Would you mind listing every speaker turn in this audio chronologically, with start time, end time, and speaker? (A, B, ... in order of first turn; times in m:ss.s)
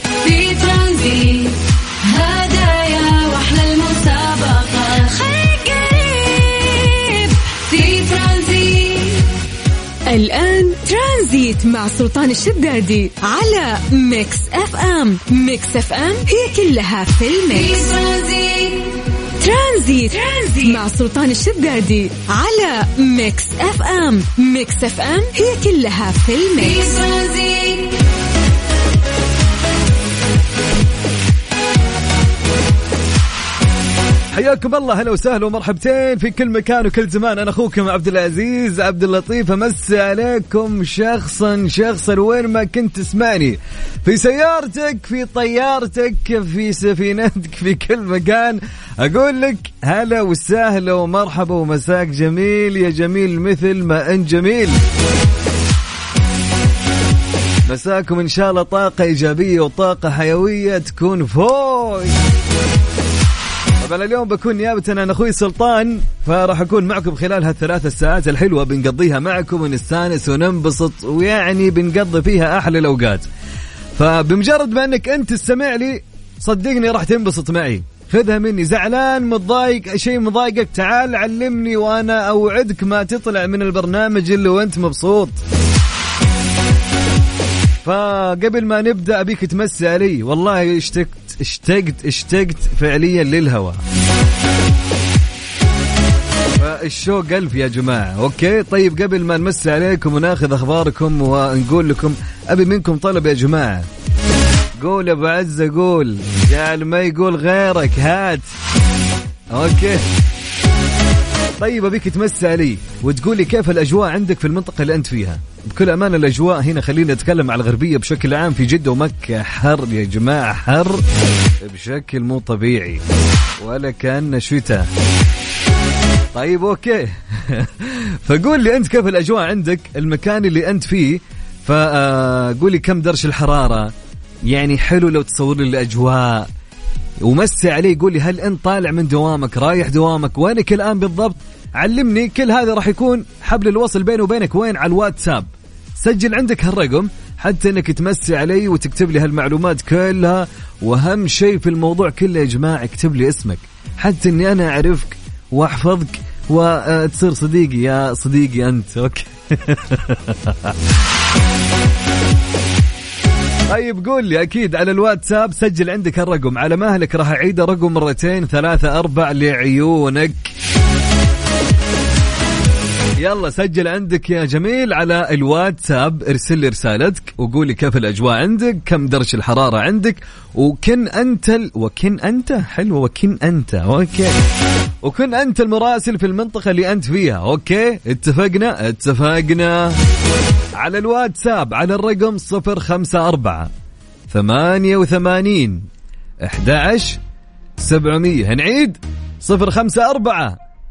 0:00.2-0:06.7 A
0:05.2-0:07.1 B
0:07.5-0:09.3 A
0:10.1-0:17.8 B
0:17.5-0:19.1 A
0:19.4-0:26.8 B
0:20.3-0:20.8 A
0:26.6-0:28.0 A
0:34.3-0:54.8 C
0:57.7-1:02.1 C
1:03.8-1:13.2 C
1:14.0-1:25.4 C
1:27.8-1:33.8 C
1:36.6-1:43.9 C
1:44.8-1:48.5 C
1:49.5-1:50.0 C
1:51.6-2:01.0 C
2:01.6-2:03.0 C
2:03.6-2:04.9 C
2:06.3-2:13.9 C
2:14.5-2:16.5 C
2:17.2-2:40.8 C
2:43.7-2:50.5 C
2:53.2-3:04.4 C
3:05.0-3:10.0 C
3:10.8-3:13.7 C
3:14.3-3:15.9 C
3:16.4-3:17.2 C
3:17.8-3:20.6 C